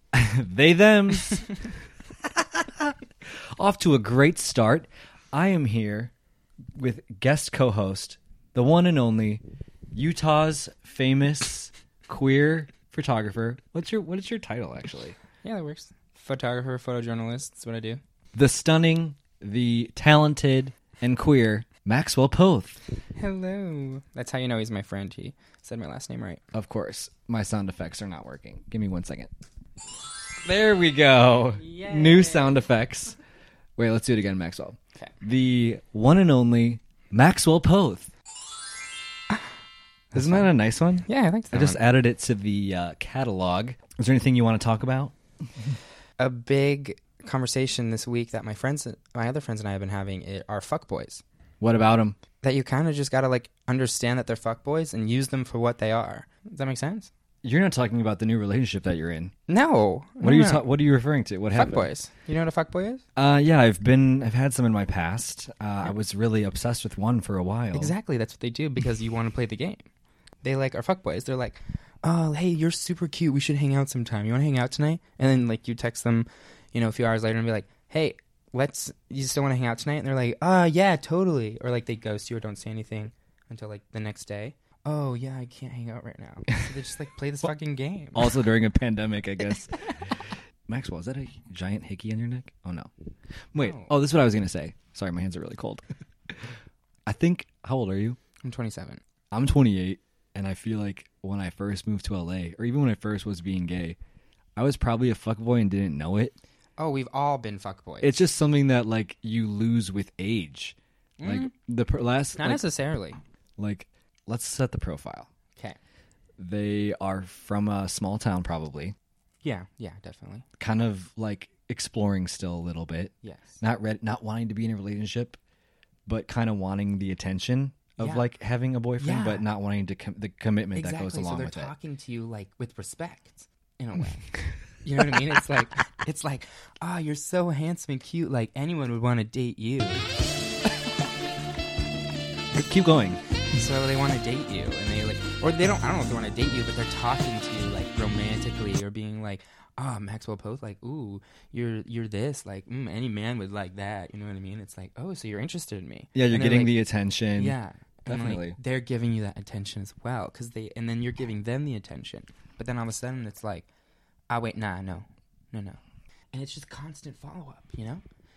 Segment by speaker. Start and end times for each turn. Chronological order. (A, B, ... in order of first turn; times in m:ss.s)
0:00.1-0:01.7 A
0:02.4-0:02.9 A
0:03.6-0:06.1 A
0:06.8-0:09.4 A
0:09.9-0:15.2 A
0:15.4-0:18.0 B
0:18.3-0:22.8 A
0:23.2-0:26.4 B
0:26.5-0:29.3 A
0:30.4-0:33.2 A
0:31.6-0:32.6 B
0:33.8-0:38.1 A
0:40.1-0:45.1 A
0:40.1-0:40.5 B
0:41.0-0:41.8 B
0:46.2-0:51.2 B
0:51.6-0:52.2 A
0:52.4-0:57.1 B
0:57.4-0:59.3 A
0:59.5-1:00.6 B
1:00.2-1:01.9 A
1:01.6-1:03.0 B
1:03.2-1:07.9 A
1:07.7-1:09.9 B
1:10.4-1:28.4 B
1:28.2-1:30.2 A
1:30.7-1:32.9 A
1:33.5-1:35.8 A
1:33.6-1:33.9 B
1:37.1-1:38.2 A
1:38.4-1:39.0 B
1:39.3-1:44.0 A
1:44.6-1:46.4 A
1:46.8-1:48.2 B
1:48.0-1:52.7 A
1:51.2-1:51.5 B
1:52.4-1:53.2 B
1:53.6-1:55.3 A
1:56.4-1:59.0 A
1:59.4-2:00.4 B
2:00.6-2:05.4 A
2:03.2-2:03.6 B
2:06.1-2:11.7 A
2:08.0-2:08.3 B
2:09.0-2:09.4 B
2:10.8-2:20.0 B
2:22.5-2:23.2 A
2:23.5-2:36.7 B
2:36.2-2:38.6 A
2:37.4-2:43.7 B
2:44.3-2:45.8 B
2:46.3-2:48.0 B